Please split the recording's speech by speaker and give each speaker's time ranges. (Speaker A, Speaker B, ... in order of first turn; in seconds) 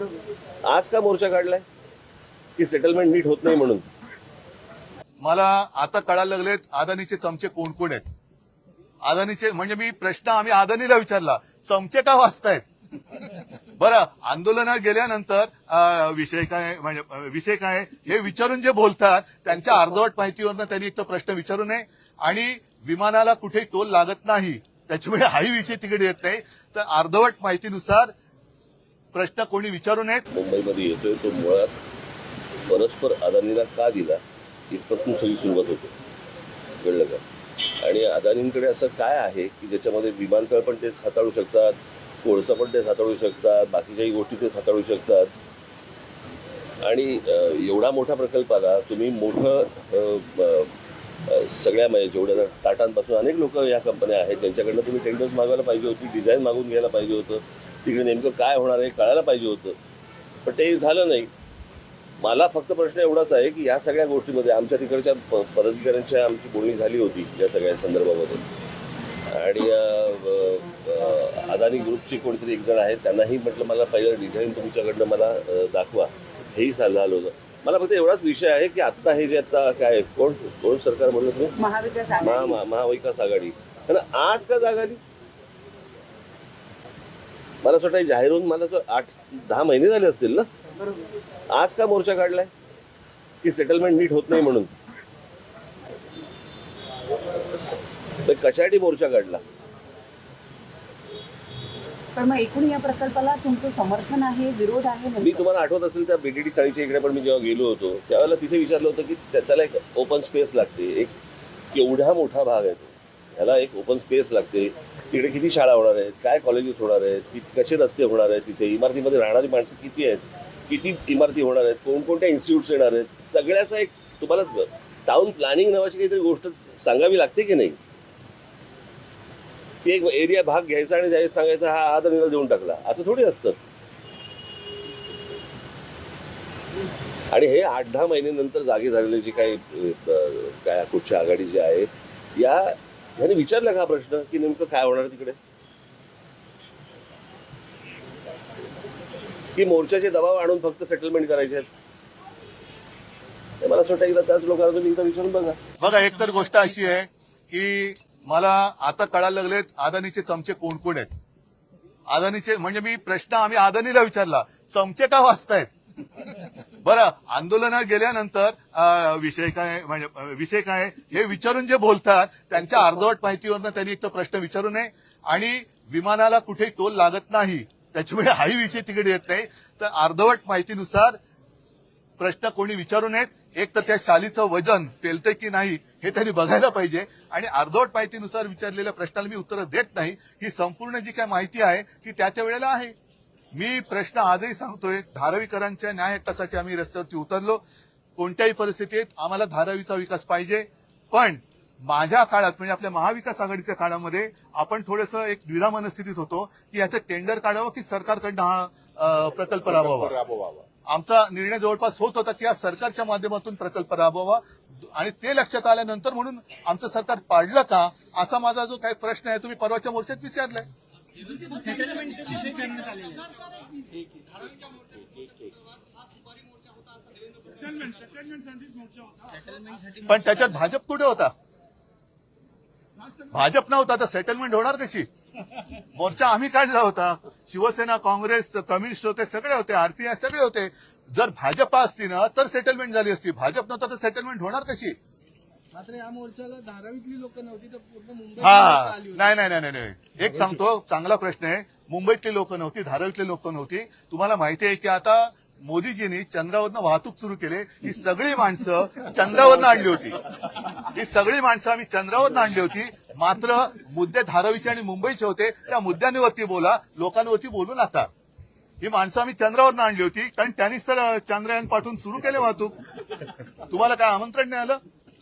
Speaker A: 0.6-1.6, 2.6-3.9, 30.3-31.8, 32.7-35.9, 36.8-45.3, 46.8-50.7, 51.2-59.8, 60.4-61.3, 62.2-68.4, 69.3-81.5, 82.2-85.0, 87.6-90.5, 91.5-92.5, 93.4-94.7, 98.2-99.4, 105.2-111.2, 111.7-127.8, 129.8-133.6, 137.3-145.4, 149.5-151.7, 153.6-155.6
Speaker B: 5.2-8.0, 9.0-12.6, 13.8-28.1, 29.1-30.2, 155.8-161.1, 162.1-165.7, 166.8-181.2, 182.2-192.9, 193.5-197.6, 198.2-210.2, 210.8-220.7, 229.9-231.3, 233.3-235.1, 235.9-244.9, 248.4-268.1, 268.8-272.7, 273.6-274.8
Speaker C: 81.6-82.6, 102.2-105.4
Speaker D: 210.1-210.6, 222.2-223.1, 224.2-225.6, 227.3-229.7, 245.7-249.3